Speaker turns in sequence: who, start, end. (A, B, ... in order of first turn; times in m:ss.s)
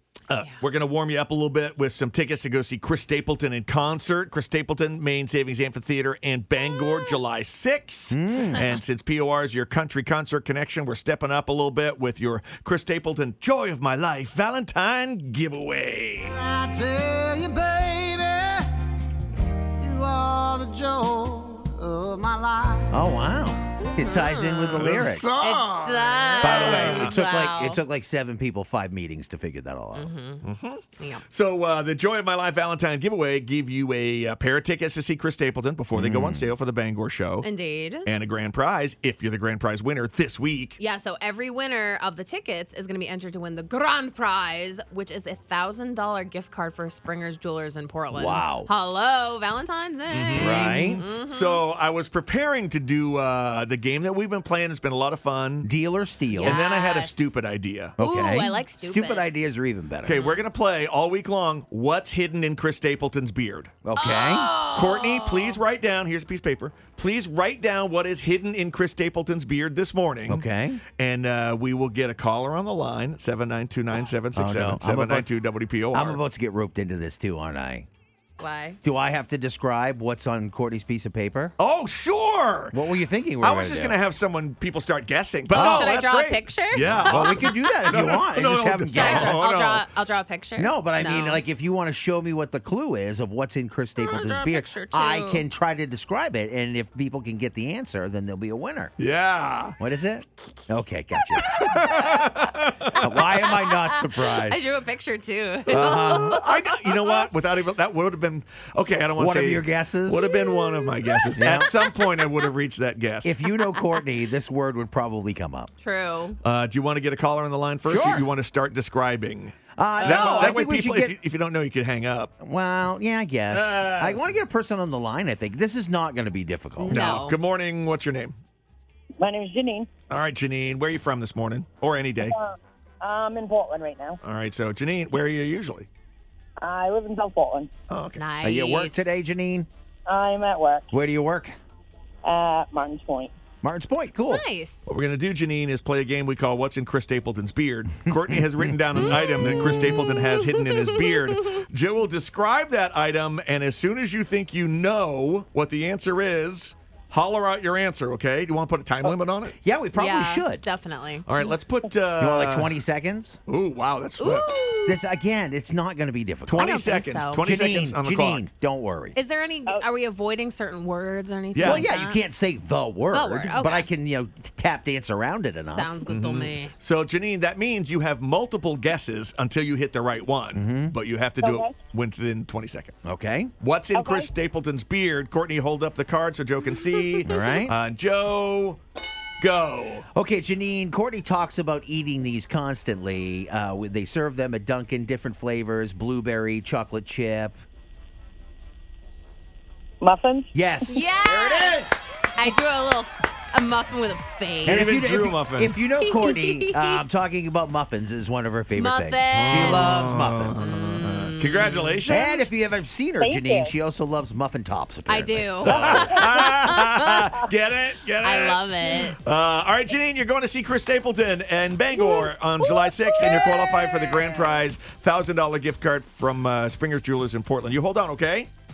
0:00.3-0:16.4 A
0:06.7-0:07.2 B
0:08.1-0:08.6 C
0:08.5-0:08.8 B
0:16.8-0:18.3 D
0:19.8-0:22.8 D
0:22.9-0:25.4 C
0:23.8-0:27.8 B
0:24.7-0:27.2 A
0:26.4-0:30.1 C
0:29.9-0:30.4 B
0:30.4-0:37.5 A
0:31.0-0:31.2 B
0:35.9-0:36.5 C
0:37.4-0:38.1 B
0:38.0-0:40.8 A
0:40.8-0:51.6 B
0:48.1-0:48.7 C
0:50.1-0:55.7 A
0:50.4-0:51.0 C
0:55.6-0:56.6 C
0:56.3-0:57.3 B
0:56.4-0:58.0 A
0:58.0-1:00.2 C
0:58.0-0:59.3 B
1:00.0-1:03.7 A
1:00.1-1:00.4 B
1:03.8-1:04.5 C
1:04.0-1:05.6 B
1:04.7-1:16.2 A
1:10.3-1:10.8 C
1:14.3-1:15.3 C
1:15.9-1:17.8 C
1:18.4-1:18.8 B
1:18.8-1:21.5 C
1:21.6-1:22.8 A
1:22.7-1:24.0 C
1:23.4-1:29.9 A
1:25.5-1:26.0 C
1:25.5-1:28.2 B
1:26.8-1:29.5 C
1:28.9-1:31.4 B
1:30.6-1:38.9 C
1:34.0-1:35.4 B
1:39.0-1:39.8 A
1:39.8-1:44.8 C
1:41.4-1:43.3 A
1:41.8-1:42.2 B
1:43.3-1:47.3 B
1:45.7-1:46.4 C
1:45.7-1:53.4 A
1:49.2-1:50.3 C
1:50.2-1:52.5 B
1:51.4-1:51.7 C
1:53.2-1:55.7 C
1:53.6-1:54.0 B
1:55.8-1:56.4 B
1:56.4-2:02.3 A
1:57.8-1:58.3 C
1:59.8-2:01.2 C
2:00.0-2:00.6 B
2:02.4-2:07.2 C
2:03.5-2:04.3 A
2:06.9-2:07.4 B
2:06.9-2:08.4 A
2:09.2-2:09.9 E
2:10.1-2:12.4 A
2:12.2-2:14.2 E
2:14.2-2:15.9 A
2:16.6-2:17.7 E
2:17.9-2:18.2 A
2:18.2-2:19.1 B
2:18.4-2:19.7 C
2:20.1-2:20.9 E
2:20.9-2:21.5 C
2:22.2-2:23.3 E
2:23.6-2:24.4 C
2:24.3-2:24.8 B
2:24.8-2:39.5 A
2:29.0-2:31.4 B
2:39.6-2:40.6 C
2:39.9-2:41.3 B
2:41.2-2:42.7 A
2:42.2-2:43.4 C
2:43.5-2:44.5 A
2:44.2-2:45.0 B
2:44.8-2:46.8 C
2:46.5-2:48.4 A
2:46.6-2:47.4 B
2:47.4-2:49.2 C
2:49.1-2:52.2 B
2:51.5-2:51.9 A
2:51.6-2:56.0 C
2:53.1-2:53.9 B
2:55.7-2:56.7 B
2:56.0-3:03.0 A
3:00.5-3:00.9 C
3:01.4-3:01.7 E
3:03.0-3:03.5 C
3:03.6-3:08.8 A
3:03.9-3:04.3 E
3:07.2-3:07.7 C
3:09.4-3:10.0 A
3:10.1-3:17.6 C
3:20.0-3:20.9 E
3:20.5-3:21.1 C
3:20.9-3:25.0 B
3:21.2-3:22.1 A
3:24.6-3:30.7 C
3:24.6-3:25.7 A
3:26.0-3:27.0 B
3:28.7-3:32.0 B
3:29.3-3:32.5 A
3:32.1-3:36.2 C
3:33.2-3:33.7 E
3:35.1-3:37.3 B
3:35.6-3:48.5 A
3:38.2-3:39.2 B
3:41.9-3:44.6 B